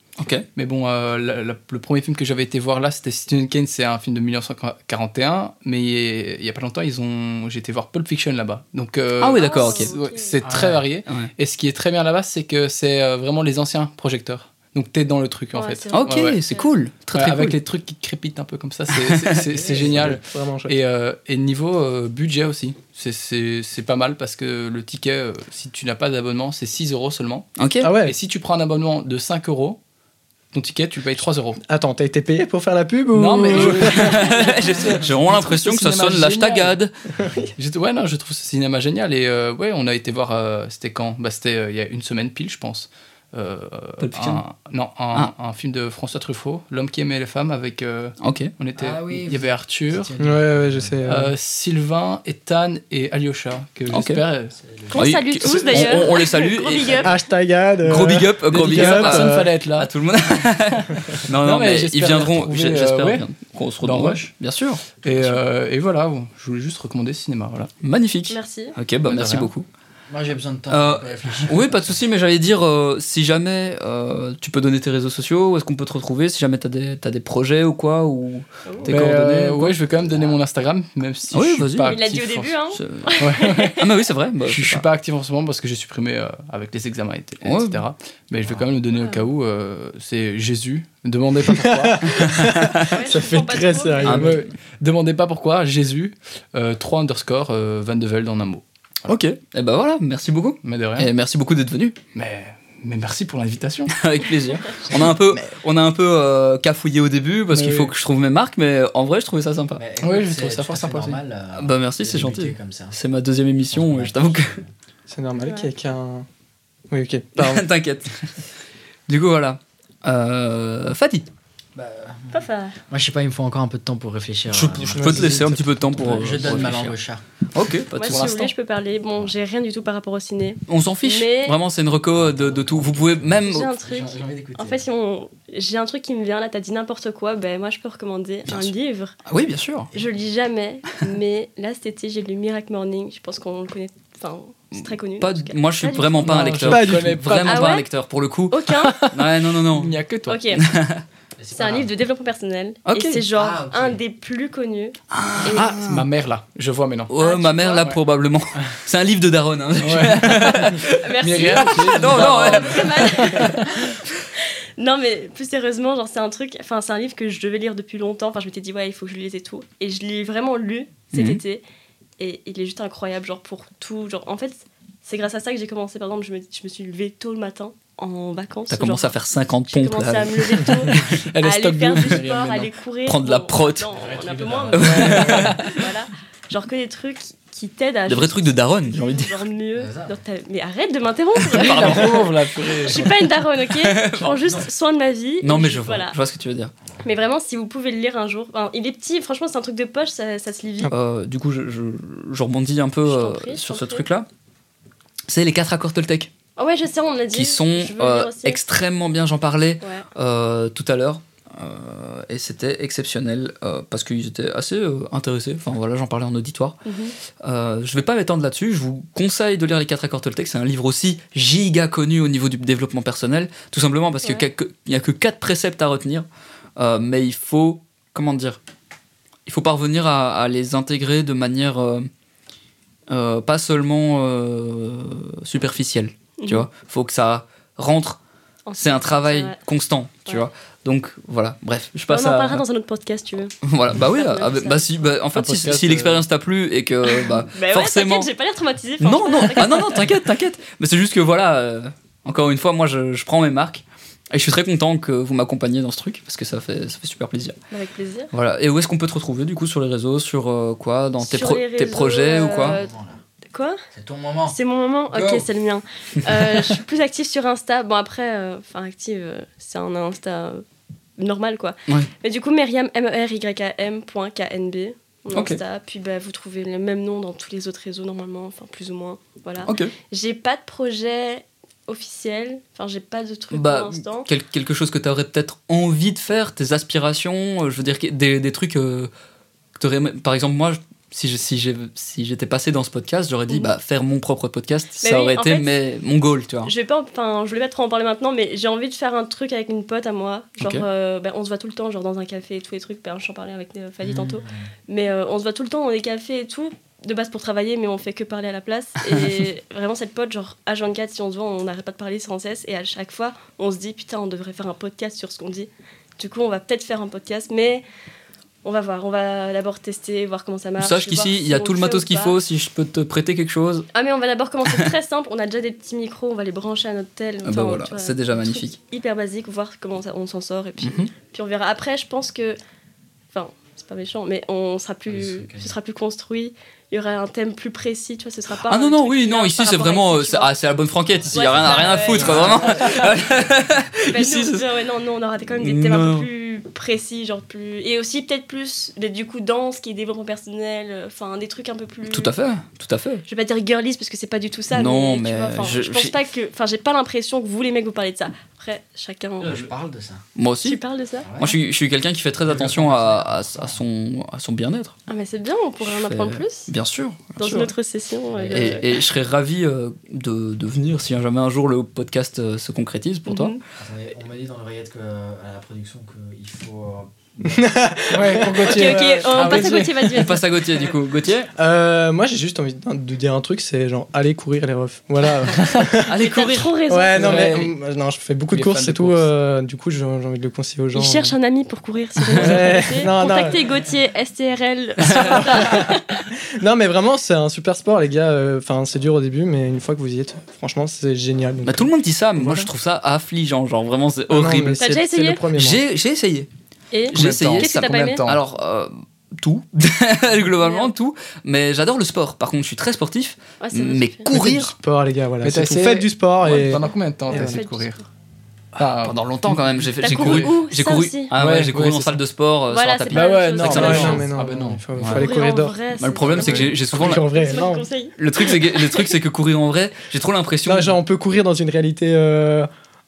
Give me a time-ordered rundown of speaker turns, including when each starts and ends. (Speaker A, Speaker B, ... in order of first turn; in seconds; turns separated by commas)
Speaker A: 0.2-0.5, Speaker B: 0.5-16.4, Speaker A: 9.2-9.9, Speaker C: 9.3-10.4, Speaker D: 10.4-10.8, Speaker A: 11.1-11.3, Speaker C: 15.5-16.7, Speaker A: 15.9-17.6, Speaker B: 17.1-29.8, Speaker A: 18.9-19.4, Speaker D: 19.6-20.1, Speaker E: 19.7-20.8, Speaker A: 27.6-27.9, Speaker E: 27.8-28.2, Speaker B: 30.5-31.6, Speaker E: 31.6-34.4, Speaker B: 33.1-36.8, Speaker A: 33.5-36.9, Speaker E: 37.2-37.5, Speaker B: 37.6-50.1, Speaker A: 44.0-44.4, Speaker A: 48.2-48.5, Speaker D: 48.8-51.0, Speaker E: 50.2-51.3, Speaker B: 51.0-54.5, Speaker A: 53.9-54.2, Speaker D: 54.6-56.2, Speaker C: 54.9-57.2, Speaker A: 54.9-57.1, Speaker E: 57.0-59.5, Speaker A: 57.8-65.4, Speaker B: 58.5-59.9, Speaker B: 60.8-63.2, Speaker B: 63.8-64.3, Speaker B: 65.0-67.7, Speaker A: 67.8-69.7, Speaker C: 68.3-68.8, Speaker D: 69.0-69.5, Speaker D: 70.1-72.0, Speaker A: 70.7-79.8, Speaker B: 78.9-82.6, Speaker D: 79.9-80.4, Speaker A: 81.3-82.0, Speaker C: 81.8-83.9, Speaker A: 82.7-83.1, Speaker B: 83.2-83.8, Speaker A: 83.7-84.8, Speaker B: 84.4-92.3, Speaker A: 87.4-87.8, Speaker C: 88.9-89.2, Speaker E: 91.4-94.4, Speaker A: 92.1-93.0, Speaker C: 92.8-94.3, Speaker A: 94.0-94.5, Speaker B: 94.1-98.6, Speaker A: 99.0-102.0, Speaker B: 100.6-101.1, Speaker B: 102.1-103.9, Speaker A: 103.9-109.8, Speaker B: 107.5-107.9, Speaker D: 109.8-113.0, Speaker B: 110.0-111.2, Speaker A: 111.5-114.6, Speaker D: 113.7-114.7, Speaker E: 115.1-116.3, Speaker C: 115.4-115.7, Speaker E: 116.9-117.6, Speaker A: 117.3-118.3, Speaker A: 119.1-121.3, Speaker D: 121.7-127.2, Speaker C: 122.3-122.8, Speaker A: 124.5-127.0, Speaker E: 124.9-125.6, Speaker B: 125.2-126.8, Speaker A: 127.5-128.5, Speaker C: 127.9-131.6, Speaker B: 128.1-128.5, Speaker A: 130.7-133.7, Speaker D: 132.1-134.8, Speaker C: 133.4-139.2, Speaker A: 139.2-139.9, Speaker C: 139.9-146.2, Speaker A: 144.7-149.9, Speaker B: 146.2-147.8, Speaker E: 146.6-147.2, Speaker C: 147.4-147.9, Speaker C: 148.5-149.1, Speaker B: 148.8-150.4, Speaker C: 150.3-150.6, Speaker A: 150.5-151.0, Speaker D: 151.4-151.9, Speaker C: 151.5-155.7, Speaker A: 152.8-153.2, Speaker D: 153.3-154.0, Speaker A: 155.1-156.0, Speaker B: 155.6-157.1, Speaker A: 157.1-163.9, Speaker C: 157.2-157.9, Speaker B: 159.8-163.9, Speaker C: 160.9-171.6, Speaker A: 171.1-171.4, Speaker C: 172.2-179.1, Speaker A: 178.7-181.1, Speaker C: 179.7-196.2, Speaker B: 181.0-182.7, Speaker A: 183.0-183.9, Speaker D: 183.9-185.3, Speaker A: 184.7-185.7, Speaker E: 184.8-185.3, Speaker B: 185.2-185.8, Speaker A: 188.1-189.4, Speaker D: 189.7-190.2, Speaker A: 191.4-192.3, Speaker B: 191.6-193.1, Speaker A: 193.7-194.6, Speaker A: 195.4-196.7, Speaker C: 197.0-200.9, Speaker A: 200.9-204.2, Speaker C: 203.1-204.1, Speaker A: 205.3-206.3, Speaker C: 206.6-208.6, Speaker A: 207.3-216.8, Speaker C: 209.8-210.1, Speaker C: 216.8-217.1, Speaker A: 217.4-228.6, Speaker A: 229.4-232.1, Speaker A: 233.1-238.2, Speaker C: 236.4-236.7, Speaker C: 238.7-239.6, Speaker A: 238.8-242.6, Speaker C: 242.1-244.9, Speaker A: 243.6-248.3, Speaker B: 245.3-246.2, Speaker C: 247.1-250.2, Speaker A: 249.0-257.6, Speaker C: 257.7-258.3, Speaker A: 258.3-262.8, Speaker C: 261.2-262.9, Speaker D: 262.4-263.2, Speaker C: 263.5-263.8, Speaker D: 263.9-264.5, Speaker C: 264.5-270.6, Speaker A: 265.1-265.4, Speaker A: 266.2-266.7, Speaker C: 271.2-284.3, Speaker A: 275.3-275.6, Speaker A: 279.6-279.9, Speaker A: 283.5-289.1, Speaker A: 289.8-296.7, Speaker C: 295.0-295.8, Speaker C: 296.6-317.8, Speaker A: 300.6-300.8, Speaker D: 304.0-304.7, Speaker C: 318.6-322.4, Speaker A: 320.8-323.9, Speaker C: 323.9-332.6, Speaker A: 327.4-328.8, Speaker A: 330.8-331.1, Speaker C: 333.3-340.5, Speaker D: 335.1-335.7, Speaker A: 338.5-344.6, Speaker D: 341.1-343.0, Speaker C: 341.3-343.2, Speaker C: 344.1-352.3, Speaker A: 345.6-346.3, Speaker A: 352.1-353.2, Speaker C: 353.3-359.5, Speaker A: 354.7-356.1, Speaker D: 359.4-360.2, Speaker A: 359.4-359.7, Speaker A: 360.3-360.8, Speaker C: 360.6-361.3, Speaker D: 361.2-361.6, Speaker A: 361.4-364.9, Speaker B: 362.5-363.1, Speaker D: 362.8-363.8, Speaker C: 365.1-366.7, Speaker A: 365.8-367.7, Speaker C: 367.4-368.8, Speaker D: 368.3-368.9, Speaker A: 368.5-373.6, Speaker C: 373.2-373.6, Speaker D: 373.8-378.4, Speaker E: 377.4-379.7, Speaker B: 378.1-380.2, Speaker C: 378.6-380.5, Speaker A: 380.1-381.5, Speaker E: 381.6-386.1, Speaker A: 386.0-386.7, Speaker C: 386.1-387.5, Speaker E: 386.9-391.3, Speaker B: 387.1-387.7, Speaker B: 388.5-389.3, Speaker C: 390.9-396.2, Speaker E: 392.3-393.7, Speaker A: 395.0-395.7, Speaker E: 395.1-396.0, Speaker E: 396.6-402.7, Speaker A: 401.6-404.9, Speaker E: 404.3-405.8, Speaker C: 404.8-405.4, Speaker A: 405.5-406.5, Speaker C: 406.9-408.3, Speaker A: 407.1-414.7, Speaker B: 407.1-408.4, Speaker C: 410.6-410.9, Speaker C: 413.6-414.3, Speaker E: 414.3-417.6, Speaker B: 415.4-418.0, Speaker C: 417.3-418.1, Speaker B: 418.8-420.5, Speaker A: 419.0-424.2, Speaker C: 420.0-421.3, Speaker B: 421.3-422.2, Speaker C: 422.7-424.3, Speaker B: 423.1-425.2, Speaker E: 423.6-427.9, Speaker C: 425.1-429.1, Speaker A: 426.0-427.6, Speaker A: 428.2-431.0, Speaker E: 430.6-432.7